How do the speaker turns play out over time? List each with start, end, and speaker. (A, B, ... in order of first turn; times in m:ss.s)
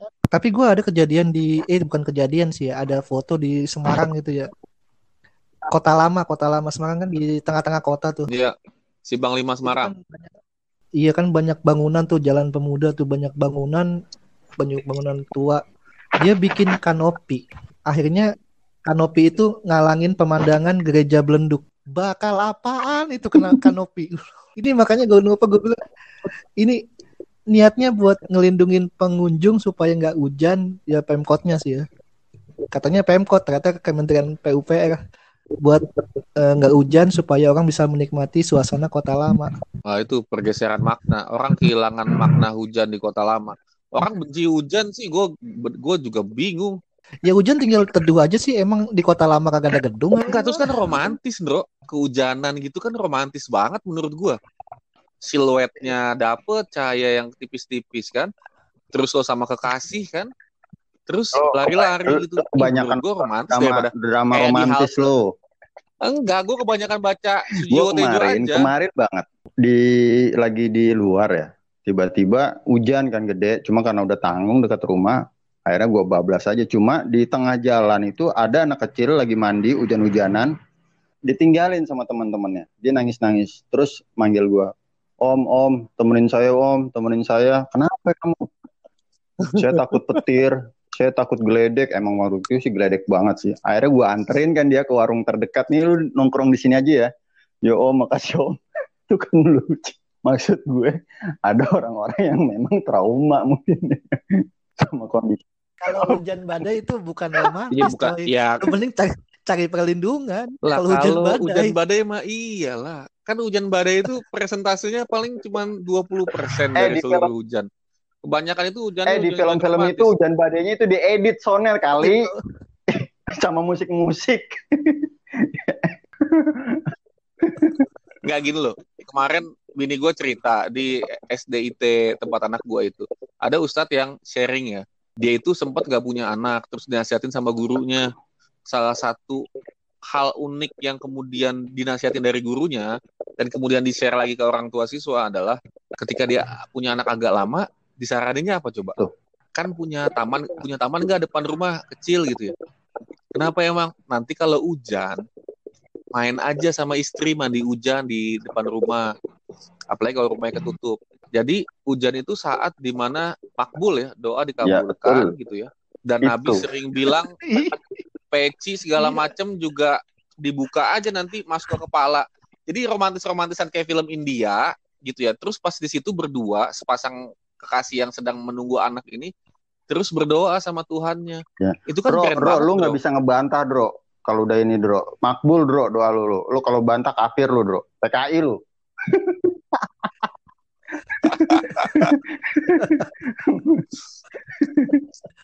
0:00.3-0:04.5 A
0:05.7-0:08.3 A
0:08.3-0:08.5 B
0:09.1-0:09.9 B
0:09.6-0:10.3 A
0:11.0-0:13.9 A
0:14.6-0:15.6 A
0:16.2-0:18.3 A
0:18.9-0:25.8 A
0:27.5-0:31.8 A
0:32.7-0:35.0 A
0:35.6-0:39.5 A
0:39.8-0:46.8 B
0:47.2-0:51.0 A
0:50.2-0:54.4 B
0:55.2-0:58.3 B
0:58.9-1:00.3 B
1:01.1-1:05.1 B
1:01.3-1:05.3 C
1:06.0-1:08.7 B
1:07.7-1:20.5 C
1:21.3-1:24.7 C
1:25.2-1:28.5 C
1:29.5-1:37.1 C
1:37.6-1:40.9 C
1:41.4-1:46.2 C
1:45.8-1:51.7 A
1:47.7-1:48.7 B
1:50.6-1:57.7 B
1:56.8-1:57.3 C
1:58.2-2:00.1 B
1:59.1-2:02.3 C
2:02.0-2:02.4 A
2:02.9-2:06.9 C
2:07.4-2:07.8 C
2:08.2-2:18.1 B
2:18.7-2:19.4 B
2:20.1-2:29.0 B
2:29.5-2:32.5 B
2:33.3-2:35.2 B
2:36.1-2:39.1 B
2:39.9-2:47.4 B
2:44.6-2:45.3 C
2:46.2-2:46.6 C
2:47.4-2:47.8 A
2:48.3-2:59.3 B
2:49.0-2:49.2 A
2:59.9-3:03.0 B
3:01.6-3:09.9 C
3:11.2-3:13.8 C
3:11.3-3:12.1 B
3:12.8-3:13.1 A
3:14.5-3:15.0 C